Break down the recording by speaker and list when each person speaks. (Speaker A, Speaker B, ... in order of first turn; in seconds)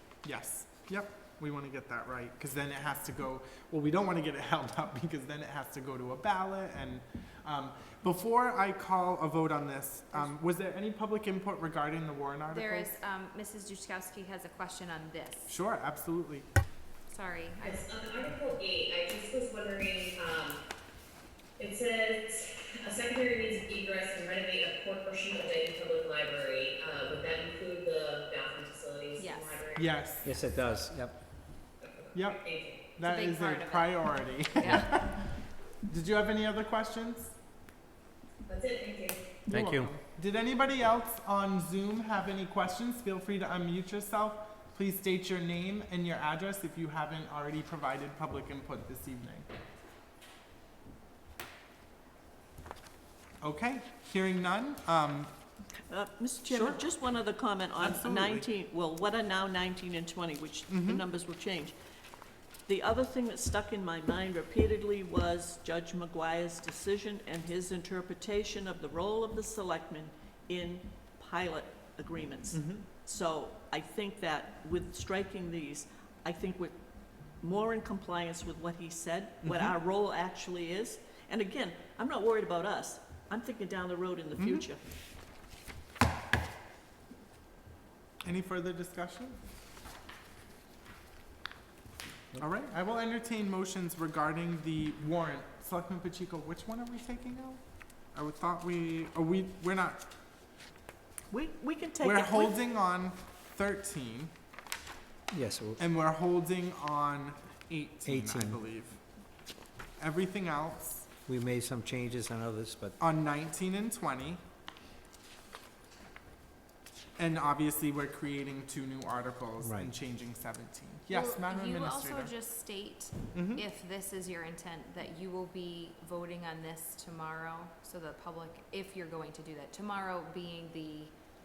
Speaker A: 0.2-12.9, 15.5-16.5, 29.8-30.3, 32.1-32.4, 32.9-35.3, 35.9-37.4, 39.6-49.5, 53.4-55.3, 56.5-56.9, 57.8-58.5, 60.7-61.0, 84.4-84.7, 88.2-89.4, 92.4-97.6, 98.1-100.1, 102.0-104.3, 105.8-109.0, 110.0-111.1, 113.0-114.4, 117.2-122.3, 123.3-123.6
Speaker B: 12.5-15.6, 17.1-17.9, 29.2-29.6, 33.0-34.9, 121.1-131.2
Speaker C: 17.6-20.6, 21.6-29.9, 31.8-33.0, 38.5-39.4
Speaker D: 30.2-31.2, 39.5-39.9, 72.5-72.8, 105.3-105.8, 108.0-108.6, 111.3-113.0, 119.6-119.9
Speaker E: 55.9-61.8, 62.7-76.8, 77.4-84.8, 101.3-102.6